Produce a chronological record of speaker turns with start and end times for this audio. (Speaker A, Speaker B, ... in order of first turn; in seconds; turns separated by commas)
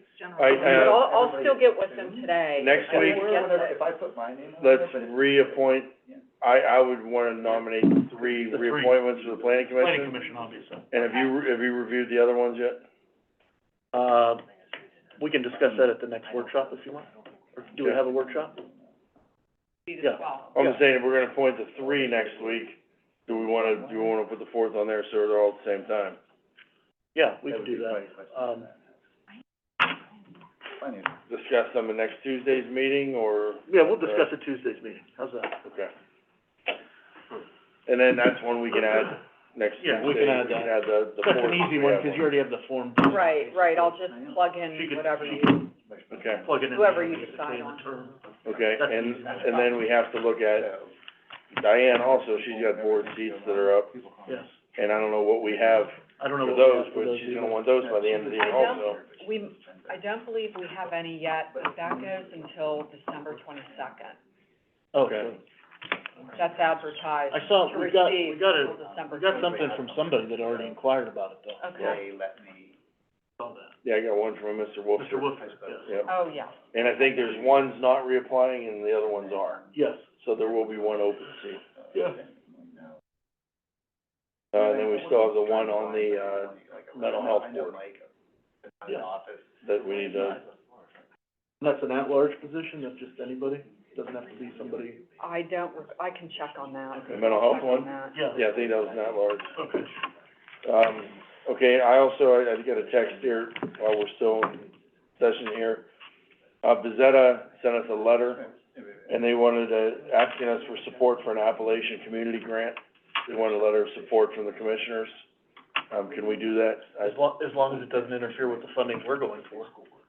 Speaker A: 0.4-1.1, Speaker B: 0.4-6.2, Speaker C: 0.5-3.7, Speaker A: 2.6-3.5, Speaker A: 4.6-10.2, Speaker B: 8.2-10.2, Speaker D: 8.5-9.0, Speaker D: 9.8-10.9, Speaker A: 10.9-12.8, Speaker D: 13.9-14.4, Speaker D: 15.2-18.6, Speaker B: 16.3-16.8, Speaker B: 17.9-18.7, Speaker C: 19.9-20.5, Speaker D: 20.0-20.8, Speaker A: 20.5-26.2, Speaker B: 21.8-22.6, Speaker B: 23.3-24.1, Speaker D: 27.1-28.7, Speaker B: 27.4-28.9, Speaker B: 30.6-31.1, Speaker A: 31.3-34.3, Speaker D: 33.7-35.6, Speaker A: 35.6-35.9, Speaker A: 37.9-42.3, Speaker D: 39.8-43.3, Speaker C: 43.1-45.5, Speaker B: 43.1-44.5, Speaker D: 44.7-45.7, Speaker B: 45.2-47.6, Speaker A: 46.1-46.5, Speaker D: 46.3-48.2, Speaker C: 46.7-47.9, Speaker A: 48.4-50.7, Speaker B: 48.5-50.9, Speaker D: 48.7-49.7, Speaker A: 51.5-53.9, Speaker B: 51.9-54.5, Speaker D: 54.3-54.5, Speaker A: 54.7-59.0, Speaker B: 55.6-55.9, Speaker D: 56.0-58.4, Speaker B: 57.7-60.0, Speaker C: 58.4-64.2, Speaker B: 61.5-62.9, Speaker B: 63.6-63.9, Speaker D: 64.9-65.4, Speaker A: 65.0-65.3, Speaker D: 66.2-66.6, Speaker C: 66.3-69.5, Speaker D: 67.3-71.8, Speaker B: 68.4-70.8, Speaker C: 71.6-72.0, Speaker B: 71.8-72.8, Speaker D: 73.4-73.7, Speaker A: 73.8-76.1, Speaker D: 75.0-76.0, Speaker B: 75.4-77.7, Speaker C: 76.1-76.5, Speaker A: 76.7-79.6, Speaker B: 79.0-79.7, Speaker D: 79.7-80.0, Speaker A: 80.2-81.6, Speaker B: 80.4-80.7, Speaker B: 81.7-83.0, Speaker D: 81.9-82.2, Speaker A: 84.5-87.8, Speaker B: 84.5-88.1, Speaker B: 88.8-90.5, Speaker A: 89.6-90.4, Speaker D: 91.6-95.0, Speaker B: 94.4-94.8, Speaker C: 95.2-98.2, Speaker D: 96.9-97.3, Speaker A: 97.1-99.6, Speaker B: 97.8-99.6, Speaker D: 98.0-98.5, Speaker D: 99.5-99.9, Speaker A: 100.6-104.7, Speaker B: 103.0-103.6, Speaker A: 105.2-105.9, Speaker A: 106.6-108.4, Speaker B: 108.0-111.9, Speaker A: 109.1-115.2, Speaker B: 113.4-113.9, Speaker A: 115.9-117.2, Speaker D: 117.0-119.7, Speaker B: 117.8-119.9